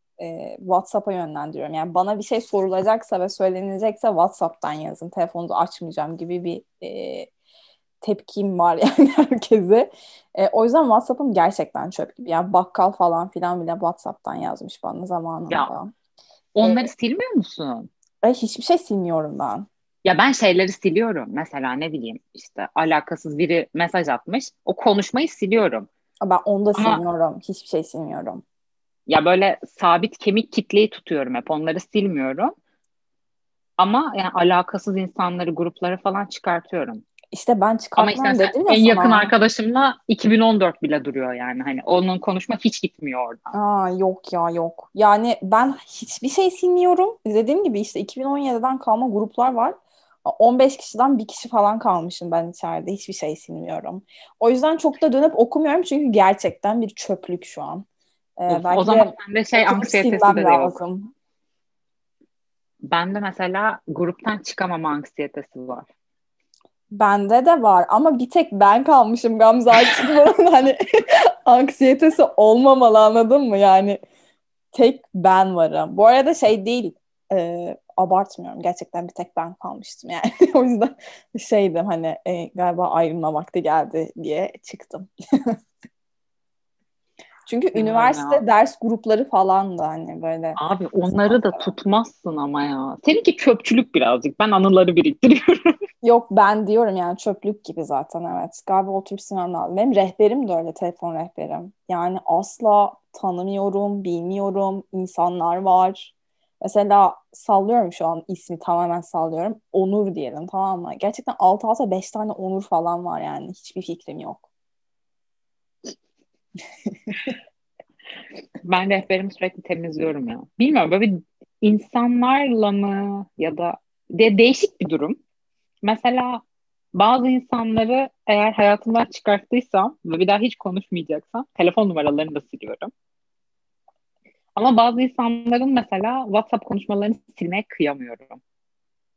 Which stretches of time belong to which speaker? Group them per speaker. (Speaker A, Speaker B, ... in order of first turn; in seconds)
Speaker A: 0.2-7.3, 8.0-15.9, 16.6-16.9, 18.2-19.7, 26.2-28.4, 37.3-39.3, 43.5-57.9, 58.4-61.1, 66.9-74.0, 74.7-85.5, 87.5-90.6, 91.2-91.7, 96.0-114.5, 116.8-117.3
Speaker B: 16.5-17.9, 20.0-25.9, 26.7-27.0, 29.1-32.5, 33.8-37.0, 38.0-43.5, 58.5-60.8, 62.8-65.9, 87.7-88.4, 90.5-95.7, 118.6-125.2, 125.8-126.4, 126.9-132.9, 134.6-138.4